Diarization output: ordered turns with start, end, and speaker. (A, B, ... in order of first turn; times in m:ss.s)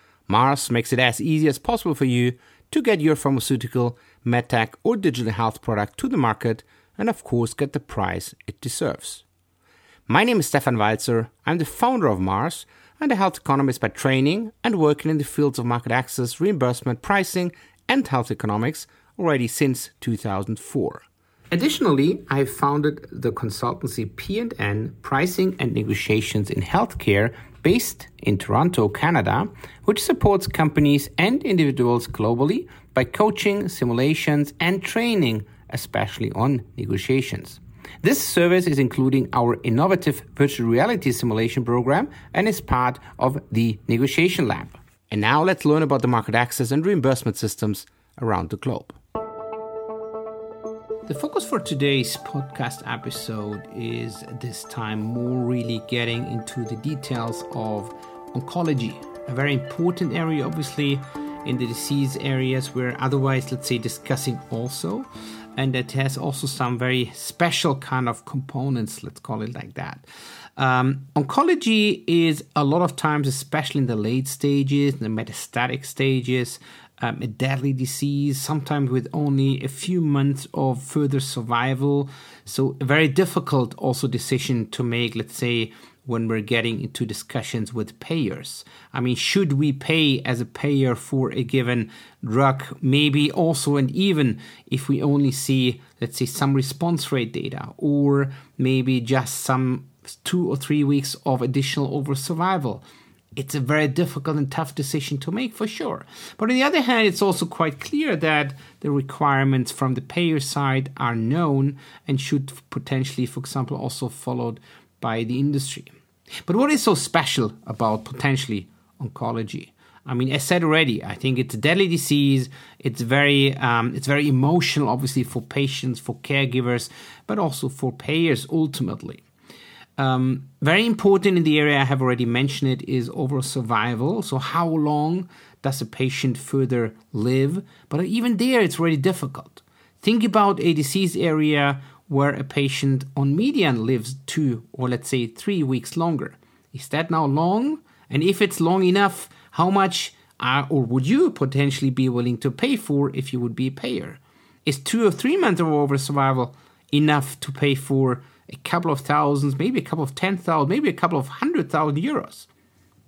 0:00.3-0:09.2 A
0:10.1-0:49.0 A
0:51.1-1:10.0 A
1:10.6-1:42.8 A
1:43.3-1:55.9 A
1:56.4-2:09.2 A
2:10.0-2:42.5 A